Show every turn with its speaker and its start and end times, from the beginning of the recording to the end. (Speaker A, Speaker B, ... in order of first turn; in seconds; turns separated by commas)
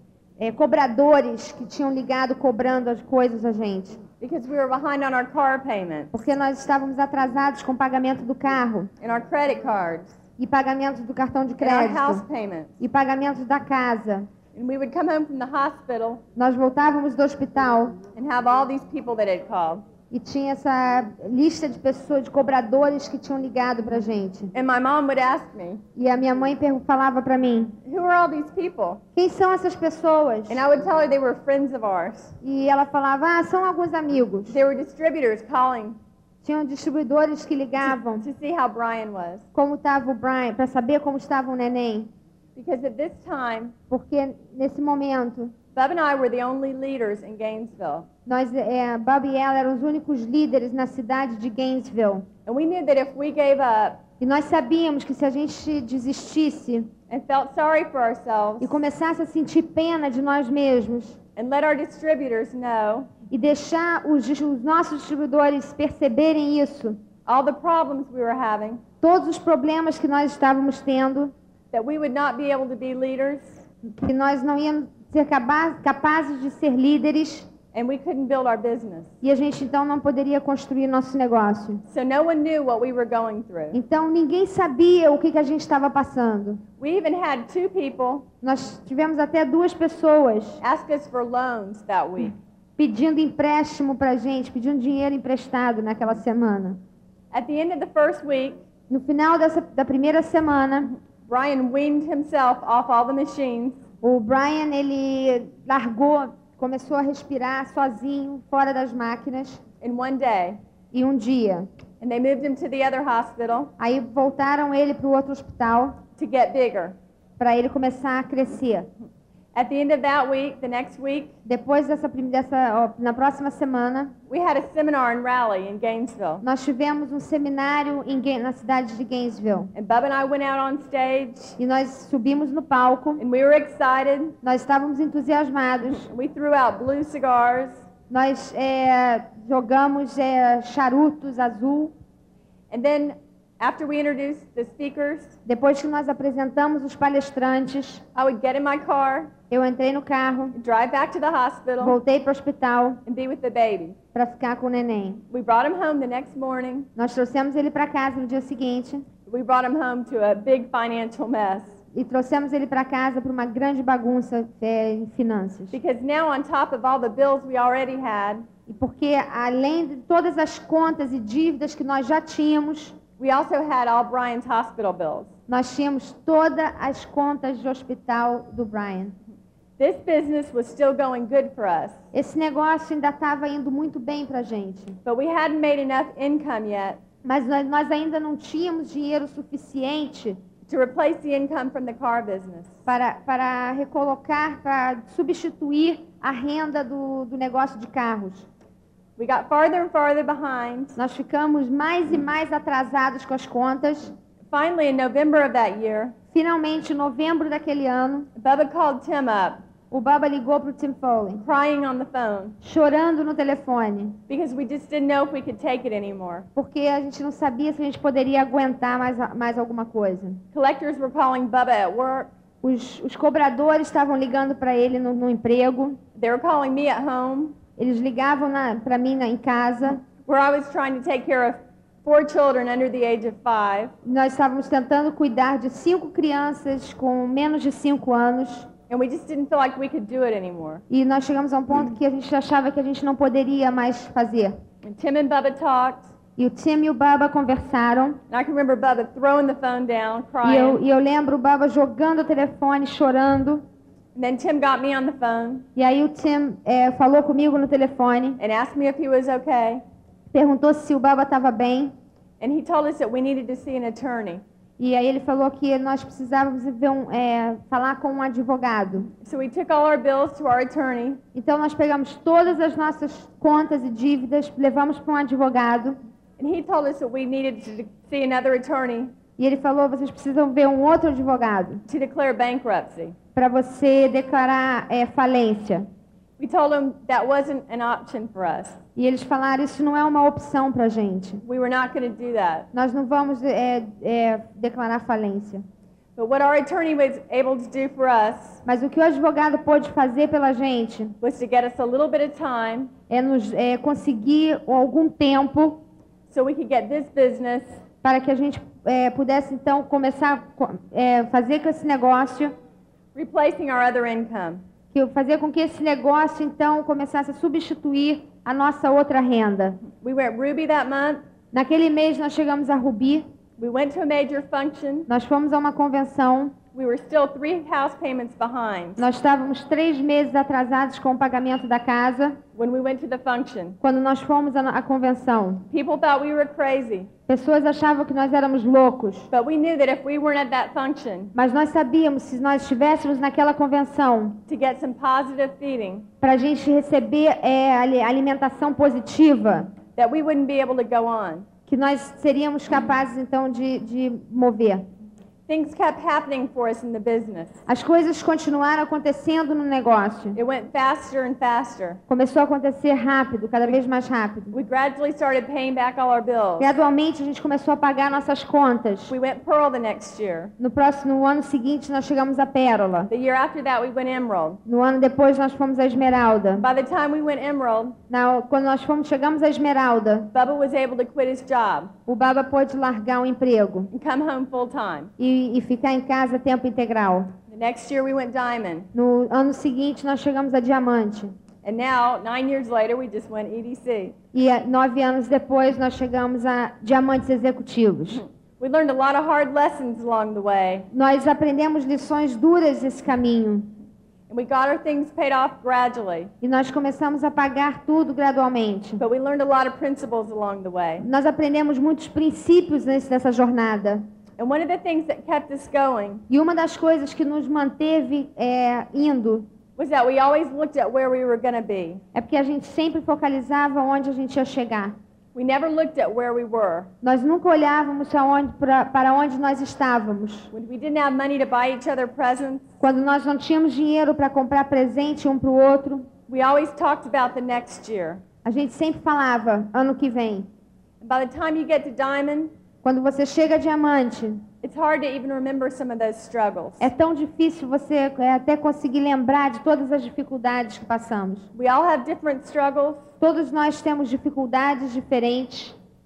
Speaker A: 0.4-4.0, Speaker B: 4.2-6.1, Speaker A: 6.1-8.9, Speaker B: 9.0-10.1, Speaker A: 10.4-12.2, Speaker B: 11.6-12.7, Speaker A: 12.8-14.3, Speaker B: 14.5-16.2, Speaker A: 16.4-18.0, Speaker B: 18.1-19.8, Speaker A: 20.1-24.5, Speaker B: 24.5-25.8, Speaker A: 25.9-27.8, Speaker B: 27.8-29.0, Speaker A: 29.1-30.6, Speaker B: 30.5-32.3, Speaker A: 32.4-34.6, Speaker B: 34.5-36.0, Speaker A: 36.4-38.3, Speaker B: 37.8-39.5, Speaker A: 39.5-42.1, Speaker B: 42.6-43.8, Speaker A: 43.9-45.5, Speaker B: 45.7-48.1, Speaker A: 48.2-52.3, Speaker B: 52.5-54.0, Speaker A: 54.2-56.9, Speaker B: 57.1-58.8, Speaker A: 58.6-61.2, Speaker B: 61.4-63.1, Speaker A: 63.3-67.0, Speaker B: 67.2-68.8, Speaker A: 69.0-71.3, Speaker B: 71.7-73.6, Speaker A: 73.9-77.5, Speaker B: 77.7-79.1, Speaker A: 79.2-81.8, Speaker B: 81.9-83.8, Speaker A: 83.7-86.6, Speaker B: 86.8-88.2, Speaker A: 88.4-90.6, Speaker B: 90.6-92.3, Speaker A: 92.8-96.8, Speaker B: 97.3-98.6, Speaker A: 98.9-100.9, Speaker B: 101.2-103.8, Speaker A: 104.0-109.6, Speaker B: 109.8-110.6, Speaker A: 110.9-111.7, Speaker B: 112.0-113.7, Speaker A: 113.8-116.0, Speaker B: 116.2-117.0, Speaker A: 117.4-118.9, Speaker B: 119.5-121.3, Speaker A: 121.5-124.1, Speaker B: 124.3-126.5, Speaker A: 126.4-129.7, Speaker B: 129.7-131.6, Speaker A: 131.6-133.2, Speaker B: 133.2-134.3, Speaker A: 134.4-136.1, Speaker B: 135.9-137.8, Speaker A: 138.1-141.9, Speaker B: 142.7-145.4, Speaker A: 145.5-148.0, Speaker B: 148.1-149.3, Speaker A: 149.5-150.6, Speaker B: 150.5-152.0, Speaker A: 151.8-153.0, Speaker B: 153.1-154.0, Speaker A: 154.1-155.2, Speaker B: 155.3-156.9, Speaker A: 157.0-159.1, Speaker B: 159.3-161.8, Speaker A: 161.9-165.7, Speaker B: 165.7-168.5, Speaker A: 168.7-173.0, Speaker B: 173.2-175.3, Speaker A: 175.5-179.2, Speaker B: 179.8-182.0, Speaker A: 182.1-185.0, Speaker B: 185.1-187.0, Speaker A: 187.2-190.4, Speaker B: 190.7-192.7, Speaker A: 192.9-198.5, Speaker B: 199.2-201.0, Speaker A: 201.0-204.1, Speaker B: 204.5-206.1, Speaker A: 206.3-208.3, Speaker B: 208.4-209.6, Speaker A: 209.9-211.4, Speaker B: 211.4-212.6, Speaker A: 212.6-214.2, Speaker B: 214.3-216.5, Speaker A: 216.6-220.4, Speaker B: 220.5-222.3, Speaker A: 222.6-226.0, Speaker B: 226.1-227.6, Speaker A: 227.8-230.0, Speaker B: 230.2-233.9, Speaker A: 234.0-238.7, Speaker B: 238.9-240.8, Speaker A: 240.9-244.6, Speaker B: 244.8-246.1, Speaker A: 246.4-248.2, Speaker B: 248.3-250.8, Speaker A: 250.4-253.6, Speaker B: 254.1-255.7, Speaker A: 255.8-258.4, Speaker B: 258.4-259.8, Speaker A: 260.3-261.9, Speaker B: 262.4-264.4, Speaker A: 264.8-269.1, Speaker B: 269.2-271.2, Speaker A: 271.3-276.0, Speaker B: 276.4-279.1, Speaker A: 279.4-281.8, Speaker B: 281.9-283.1, Speaker A: 283.4-285.9, Speaker B: 286.4-288.8, Speaker A: 288.9-291.4, Speaker B: 291.4-292.7, Speaker A: 292.7-295.6, Speaker B: 296.1-298.6, Speaker A: 298.6-301.1, Speaker B: 301.2-302.9, Speaker A: 303.1-305.8, Speaker B: 306.3-307.7, Speaker A: 308.0-312.5, Speaker B: 313.1-314.6, Speaker A: 314.9-319.8, Speaker B: 320.0-321.2, Speaker A: 321.5-323.3, Speaker B: 323.6-325.1, Speaker A: 325.1-326.6, Speaker B: 326.7-329.0, Speaker A: 329.0-332.4, Speaker B: 332.6-333.8, Speaker A: 333.8-335.6, Speaker B: 335.7-337.1, Speaker A: 337.3-339.3, Speaker B: 339.3-341.3, Speaker A: 341.3-344.4, Speaker B: 344.5-346.1, Speaker A: 346.2-349.7, Speaker B: 349.9-351.4, Speaker A: 351.7-354.9, Speaker B: 355.5-357.6, Speaker A: 357.7-360.4, Speaker B: 360.4-362.0, Speaker A: 362.1-364.5, Speaker B: 364.5-366.7, Speaker A: 366.6-369.1, Speaker B: 369.1-370.5, Speaker A: 370.6-373.1, Speaker B: 373.1-374.6, Speaker A: 374.6-376.6, Speaker B: 376.6-377.9, Speaker A: 378.1-380.3, Speaker B: 380.3-381.9, Speaker A: 382.1-383.9, Speaker B: 383.9-385.1, Speaker A: 385.2-387.3, Speaker B: 387.5-388.9, Speaker A: 388.9-391.3, Speaker B: 391.6-394.1, Speaker A: 394.3-398.2, Speaker B: 398.1-400.9, Speaker A: 400.9-403.8, Speaker B: 404.3-406.3, Speaker A: 406.4-409.0, Speaker B: 409.0-411.1, Speaker A: 411.0-414.0, Speaker B: 414.4-416.2, Speaker A: 416.3-419.5, Speaker B: 419.8-422.0, Speaker A: 422.1-424.9, Speaker B: 425.4-426.9, Speaker A: 427.0-430.5, Speaker B: 430.5-432.6, Speaker A: 432.8-436.1, Speaker B: 436.3-438.2, Speaker A: 438.4-440.5, Speaker B: 441.0-442.5, Speaker A: 442.8-444.4, Speaker B: 444.6-446.9, Speaker A: 446.8-451.5, Speaker B: 451.5-453.0, Speaker A: 453.2-455.8